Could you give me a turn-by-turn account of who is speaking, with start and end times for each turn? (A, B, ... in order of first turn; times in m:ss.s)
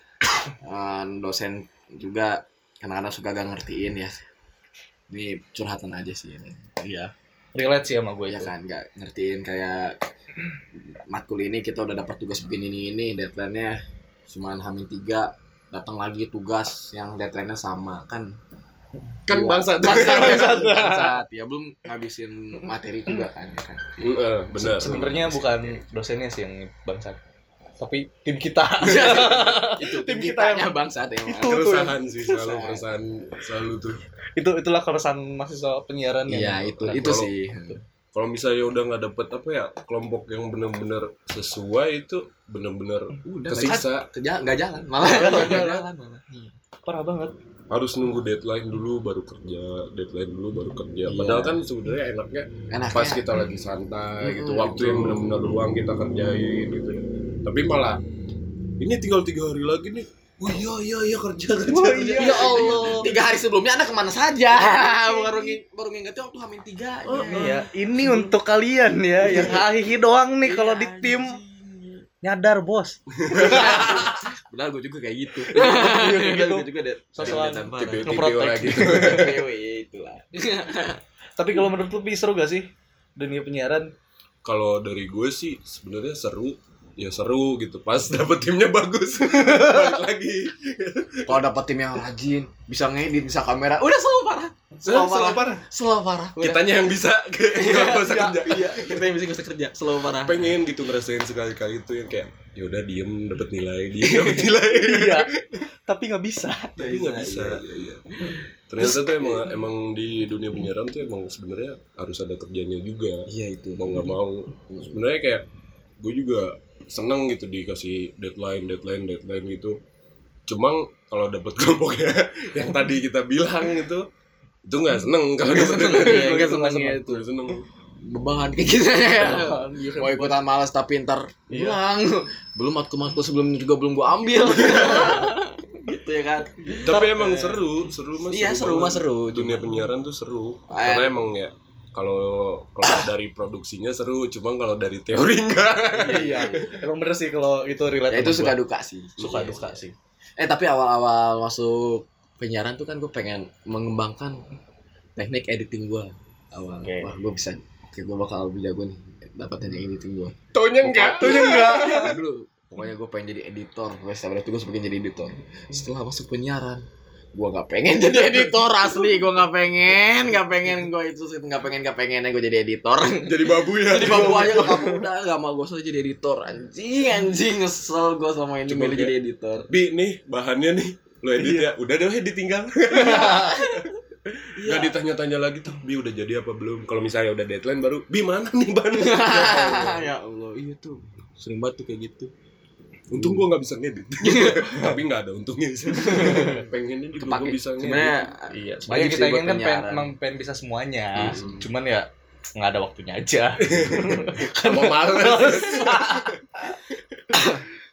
0:00.6-0:04.2 A
0:05.1-0:07.1 A
0:07.6-0:08.5 B
0:08.3-0:10.0 A
0:10.8-0:18.3 A
0:19.3-0:20.6 C
0:19.3-0:23.8 A
0:20.0-0:21.1 B
0:24.0-0:25.1 C
0:24.6-0:27.2 B
0:24.7-0:25.8 A
0:27.8-0:30.7 B
0:28.8-0:32.9 A
0:31.3-0:32.0 B
0:31.4-0:34.0 C
0:34.4-0:37.1 B
0:36.3-0:37.8 A
0:36.9-0:37.3 C
0:38.1-0:44.1 C
0:43.2-0:46.5 A
0:45.0-0:45.9 C
0:45.1-0:45.7 B
0:46.8-0:47.3 B
0:47.7-0:58.0 C
0:51.1-0:51.6 A
0:52.7-0:53.2 A
0:54.2-0:55.3 A
0:58.8-1:03.1 C
1:01.7-1:03.1 B
1:02.1-1:07.6 A
1:04.6-1:05.6 B
1:07.1-1:08.1 C
1:07.3-1:11.4 B
1:09.2-1:09.7 A
1:10.4-1:12.0 A
1:12.2-1:14.2 B
1:13.2-1:14.1 C
1:13.3-1:18.2 A
1:15.5-1:19.3 B
1:17.2-1:19.4 C
1:18.8-1:21.0 A
1:21.4-1:22.7 B
1:23.2-1:23.9 B
1:24.4-1:31.4 C
1:31.3-1:36.8 A
1:34.8-1:35.6 C
1:36.4-1:39.1 C
1:37.5-1:40.5 A
1:38.0-1:38.7 B
1:40.1-1:45.6 C
1:44.0-1:44.5 A
1:44.7-1:45.3 B
1:45.9-1:46.8 B
1:46.8-1:48.1 C
1:46.8-1:49.5 A
1:48.7-1:55.4 C
1:53.3-1:54.1 A
1:54.7-1:55.0 A
1:56.0-1:59.8 C
2:00.5-2:04.0 C
2:04.7-2:07.7 C
2:05.4-2:07.1 A
2:05.9-2:07.2 B
2:08.1-2:17.2 A
2:09.2-2:10.4 B
2:11.5-2:11.8 B
2:16.7-2:17.6 B
2:16.8-2:26.8 C
2:18.2-2:19.8 A
2:20.7-2:21.2 A
2:22.8-2:23.1 A
2:25.9-2:26.8 A
2:26.0-2:28.6 B
2:28.1-2:29.8 A
2:29.2-2:29.5 C
2:29.2-2:29.9 B
2:30.4-2:34.4 A
2:35.2-2:46.8 A
2:36.8-2:37.1 B
2:40.5-2:42.2 C
2:41.2-2:42.1 B
2:47.3-2:59.7 A
2:53.2-2:55.0 C
2:58.7-2:59.1 C
2:59.7-3:03.9 C
3:01.4-3:01.7 A
3:02.9-3:05.0 A
3:04.6-3:10.1 C
3:08.9-3:12.3 A
3:13.1-3:18.2 C
3:13.2-3:13.5 A
3:14.2-3:14.7 A
3:16.0-3:20.1 A
3:16.2-3:16.6 B
3:18.5-3:22.1 B
3:21.2-3:21.6 C
3:21.2-3:21.7 A
3:22.6-3:26.8 B
3:23.7-3:26.4 C
3:27.3-3:27.6 A